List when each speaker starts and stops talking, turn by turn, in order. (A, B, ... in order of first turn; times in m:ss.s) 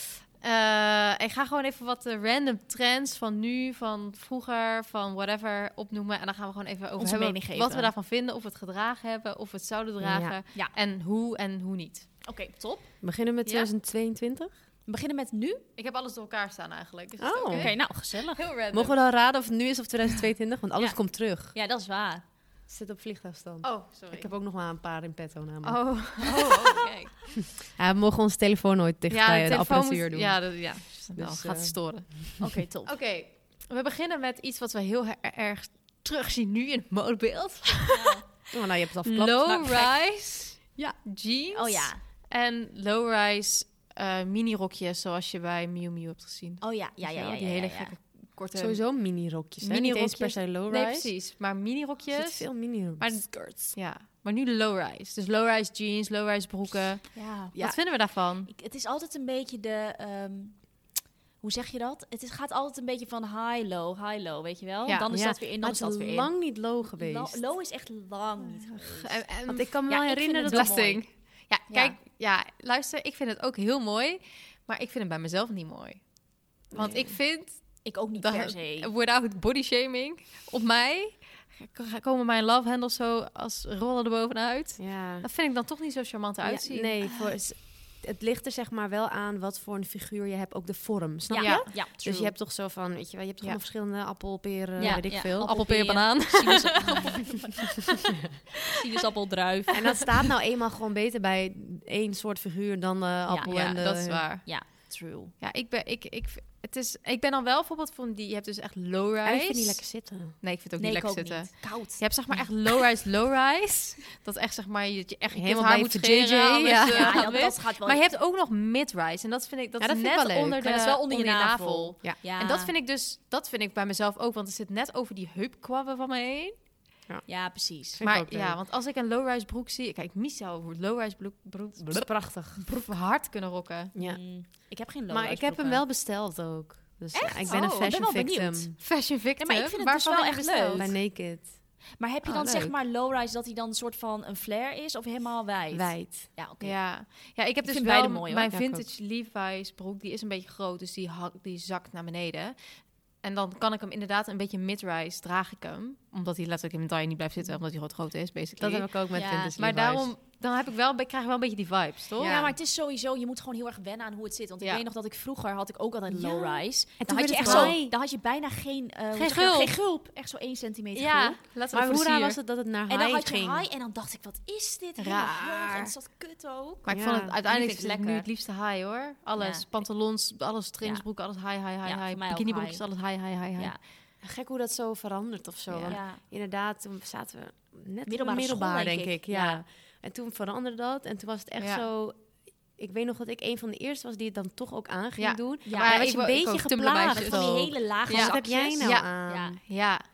0:00.4-0:12.1 A
0:07.0-0:07.9 B
0:10.0-0:10.4 C
0:12.2-0:12.9 B
0:13.0-0:14.5 C
0:14.9-0:15.6 B
0:15.8-0:19.0 A
0:17.2-0:17.7 C
0:17.5-0:18.4 B
0:18.7-0:21.5 C
0:21.5-0:22.2 B
0:22.7-0:26.0 C
0:23.6-0:24.3 A
0:25.6-0:27.2 A
0:27.4-0:31.8 C
0:29.1-0:38.2 A
0:32.4-0:32.9 B
0:37.9-0:38.2 B
0:38.5-0:39.8 C
0:39.0-0:48.8 A
0:39.5-0:39.9 B
0:41.5-0:42.0 B
0:46.6-0:47.9 B
0:48.5-0:51.1 C
0:49.6-0:58.5 A
0:52.1-0:53.7 C
0:57.1-1:00.6 B
1:01.4-1:09.2 B
1:05.1-1:07.4 C
1:08.5-1:09.8 A
1:09.5-1:10.8 C
1:09.9-1:11.0 B
1:10.4-1:16.0 A
1:11.7-1:12.0 B
1:16.7-1:27.0 A
1:16.7-1:17.2 C
1:17.8-1:18.9 B
1:24.8-1:25.3 C
1:26.7-1:35.5 C
1:31.3-1:32.3 B
1:31.4-1:31.7 A
1:34.8-1:37.8 B
1:34.8-1:37.3 A
1:38.6-1:40.1 B
1:39.7-1:44.4 C
1:43.3-1:45.3 B
1:43.4-1:44.7 A
1:45.4-1:49.8 A
1:49.2-1:50.4 C
1:50.4-2:06.6 A
1:50.8-1:52.1 B
1:55.3-1:57.5 C
1:56.9-1:58.1 B
1:59.8-2:00.9 C
2:00.6-2:02.7 B
2:07.3-2:08.0 B
2:07.9-2:08.6 C
2:08.0-2:12.1 A
2:11.8-2:12.6 C
2:12.6-2:13.9 A
2:13.9-2:14.2 C
2:14.0-2:15.8 B
2:15.1-2:18.7 C
2:17.1-2:18.8 B
2:17.5-2:17.9 A
2:18.8-2:21.0 A
2:19.4-2:20.9 B
2:20.8-2:21.6 C
2:22.0-2:26.8 B
2:22.2-2:22.7 A
2:25.7-2:26.3 C
2:26.6-2:38.9 A
2:27.6-2:28.5 B
2:28.5-2:28.8 C
2:38.6-2:40.1 C
2:39.1-2:39.5 B
2:39.6-2:42.5 A
2:42.2-2:42.5 C
2:42.2-2:51.4 B
2:46.2-2:47.9 C
2:47.4-2:47.8 A
2:49.2-2:49.8 A
2:50.9-2:52.4 A
2:51.7-2:53.6 C
2:52.9-2:56.9 B
2:55.0-2:55.9 A
2:56.9-3:03.8 A
2:56.9-2:57.4 C
2:57.4-2:58.3 B
2:59.4-2:59.8 B
3:01.8-3:02.8 B
3:04.2-3:12.2 C
3:05.7-3:06.0 A
3:05.9-3:06.2 B
3:08.1-3:09.6 B
3:11.6-3:11.8 A
3:12.8-3:19.6 C
3:15.2-3:20.0 A
3:15.6-3:16.0 B
3:17.1-3:19.6 B